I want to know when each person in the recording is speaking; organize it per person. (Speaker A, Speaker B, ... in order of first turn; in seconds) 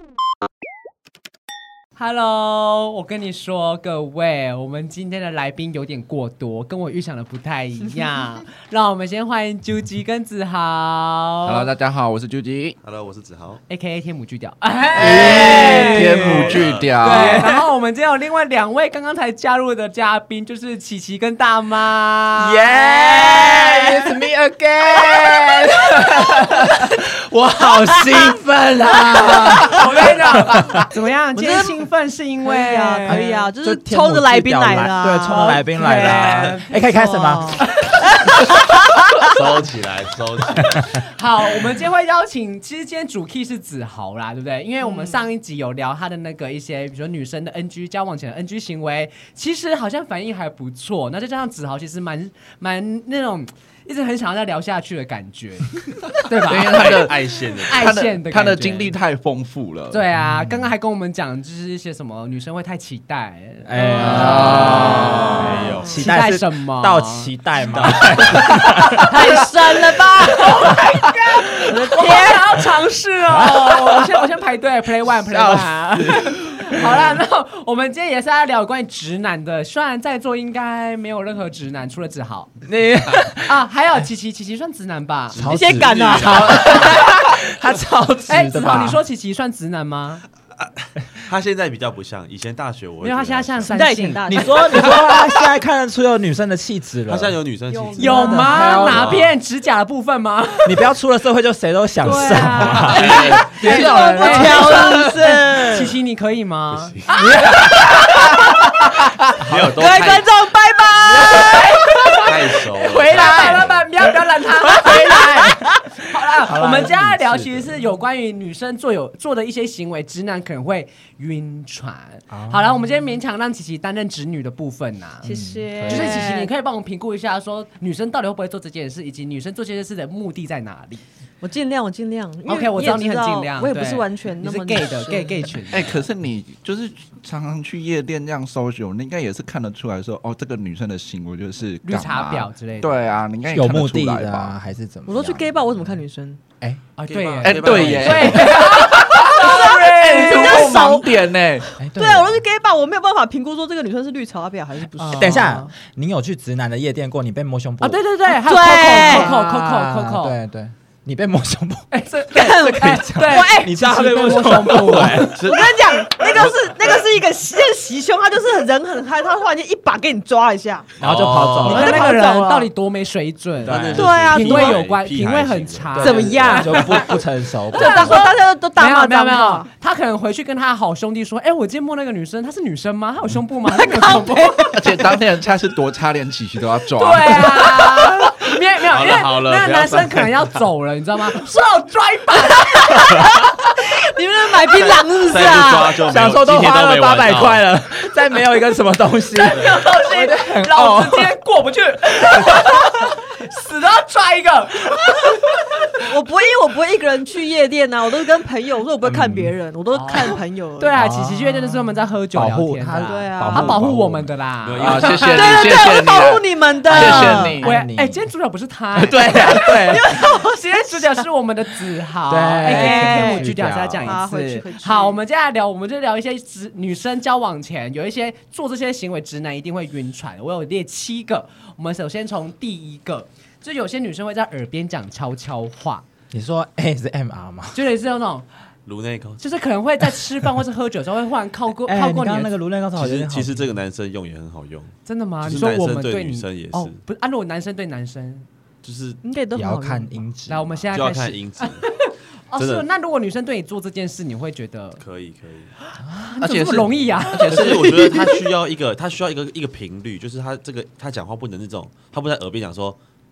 Speaker A: 1.9-11.7, 13.7-22.6, 27.6-28.2, 29.2-33.3, 35.4-36.7, 40.9-58.9, 59.9-67.3, 68.0-82.5, 83.4-85.4, 88.3-90.2, 93.0-94.6, 98.0-100.9, 102.0-107.8, 111.1-125.3, 125.8-131.0, 132.4-136.1, 141.8-143.0, 147.0-150.7, 155.0-155.7, 157.8-160.3, 161.9-165.5, 171.6-177.2, 177.7-184.7, 187.0-193.0, 199.4-205.5, 209.9-215.5, 217.0-236.0, 237.7-238.5, 239.4-242.5, 245.1-248.5, 250.5-255.0, 256.1-257.7
Speaker B: 11.4-12.8, 14.9-17.5, 56.4-60.0, 64.0-65.5, 135.7-144.5, 147.4-151.7, 184.7-187.6, 214.8-217.7, 256.4-258.0
Speaker C: 12.8-13.6, 16.1-17.2, 39.3-41.0, 56.6-57.9, 65.3-65.9, 67.7-68.4, 85.3-87.0, 90.6-93.7, 97.1-98.2, 98.8-99.3, 102.7-103.6, 106.7-107.3, 109.4-110.3, 112.2-113.7, 147.1-148.5, 165.0-167.0, 171.0-172.0, 173.6-176.7, 188.9-190.6, 194.6-197.6, 214.6-215.7, 238.8-239.4, 242.9-247.0, 248.8-249.2, 250.9-251.8, 252.6-252.9, 255.0-255.7, 257.5-263.0
Speaker D: 15.1-16.1, 22.4-29.8, 30.4-30.9, 33.0-37.7, 60.2-60.7, 63.6-69.1, 73.3-74.0, 75.2-77.1, 82.6-83.5, 85.3-89.0, 94.3-97.3, 98.0-99.2, 100.6-105.1, 107.3-108.1, 113.0-113.8, 114.7-117.8, 122.3-122.8, 125.2-126.3, 143.4-145.6, 151.8-152.4, 155.1-158.0, 158.7-161.8, 162.7-165.3, 171.0-172.1, 173.7-174.1, 176.5-178.2, 196.1-201.3, 202.2-202.8, 209.0-209.5, 210.9-211.7, 212.3-214.1, 216.9-218.3, 218.9-220.2, 222.3-224.2, 236.3-237.8, 241.8-243.7, 249.5-250.9
Speaker E: 22.7-24.1, 31.4-31.8, 32.4-39.4, 44.8-45.2, 63.8-65.9, 69.0-70.7, 71.7-72.7, 85.4-87.1, 93.7-95.3, 97.7-99.2, 102.0-105.9, 107.3-108.4, 109.8-111.8, 113.2-113.6, 125.2-126.5, 131.4-135.5, 145.1-146.4, 149.3-151.2, 151.8-155.5, 158.3-159.3, 162.3-163.7, 165.4-170.9, 171.6-172.7, 173.9-174.8, 175.9-177.2, 177.7-179.7, 183.7-185.2, 192.8-196.0, 206.0-211.0, 213.0-213.8, 215.3-217.6, 219.5-221.2, 222.6-225.2, 249.2-250.3, 257.6-258.4